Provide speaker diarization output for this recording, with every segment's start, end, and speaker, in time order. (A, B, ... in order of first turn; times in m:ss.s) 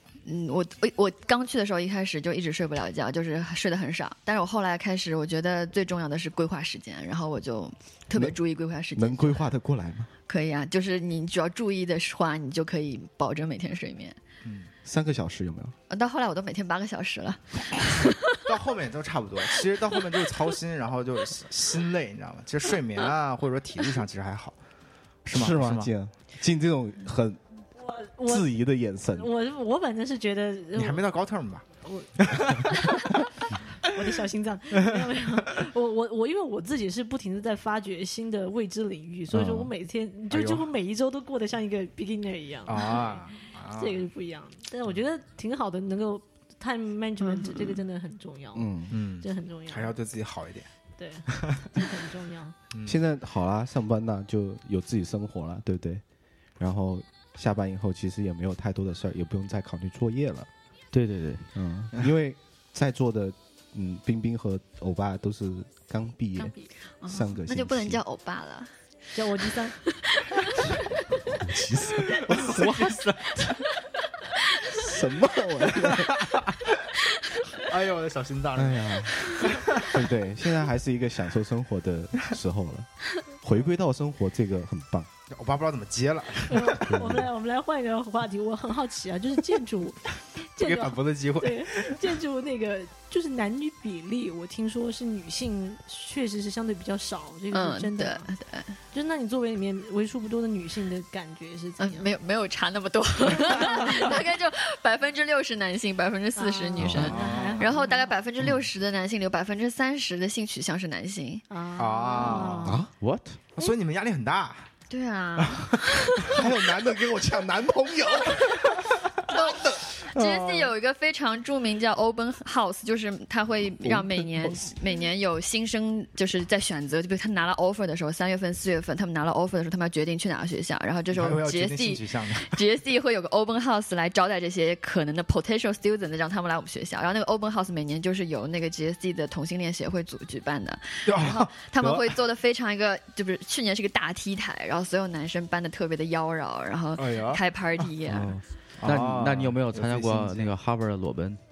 0:00.2-0:09.4 A
0:09.0-0:10.1 B
0:10.3-0:14.2 A
0:14.4-0:14.7 C
0:14.8-0:15.7 B
0:15.9-0:18.4 A
0:18.4-0:24.6 C
0:25.2-0:25.9 C
0:25.3-0:27.4 B
0:27.8-0:31.1 D
0:28.2-0:29.3 B
0:30.7-0:31.6 C
0:31.8-0:33.3 D
0:32.2-0:33.0 C
0:33.8-0:49.9 D
0:39.3-0:39.7 B
0:40.3-0:40.7 C
0:42.6-0:44.1 C
0:47.2-0:47.8 A
0:48.5-0:48.9 B
0:48.9-0:50.7 C
0:51.0-0:52.5 D
0:51.3-0:51.7 C
0:52.7-0:53.0 C
0:52.8-0:56.0 B
0:56.6-1:00.5 B
1:00.9-1:01.5 E
1:01.5-1:08.0 B
1:06.4-1:08.7 A
1:09.1-1:09.8 D
1:09.8-1:10.6 A
1:11.4-1:12.9 B
1:12.1-1:13.6 C
1:14.7-1:16.2 B
1:15.8-1:16.6 C
1:17.5-1:20.0 C
1:18.6-1:25.1 B
1:25.3-1:26.9 C
1:26.5-1:38.3 D
1:30.6-1:32.1 C
1:37.5-1:38.8 A
1:38.9-1:42.1 D
1:41.8-1:51.4 A
1:43.5-1:44.1 D
1:46.4-1:48.1 D
1:46.8-1:47.1 B
1:46.9-1:47.7 C
1:51.5-1:52.8 D
1:51.8-1:52.8 C
1:52.1-1:52.6 A
1:52.6-1:52.9 B
1:53.0-1:53.4 E
1:53.5-1:54.7 C
1:54.9-1:56.3 A
1:55.4-1:55.8 C
1:56.2-1:58.8 B
1:59.3-2:28.4 A
2:03.8-2:04.7 B
2:11.1-2:12.6 C
2:21.0-2:22.2 C
2:27.0-2:27.4 C
2:28.8-2:30.5 C
2:28.8-2:31.4 E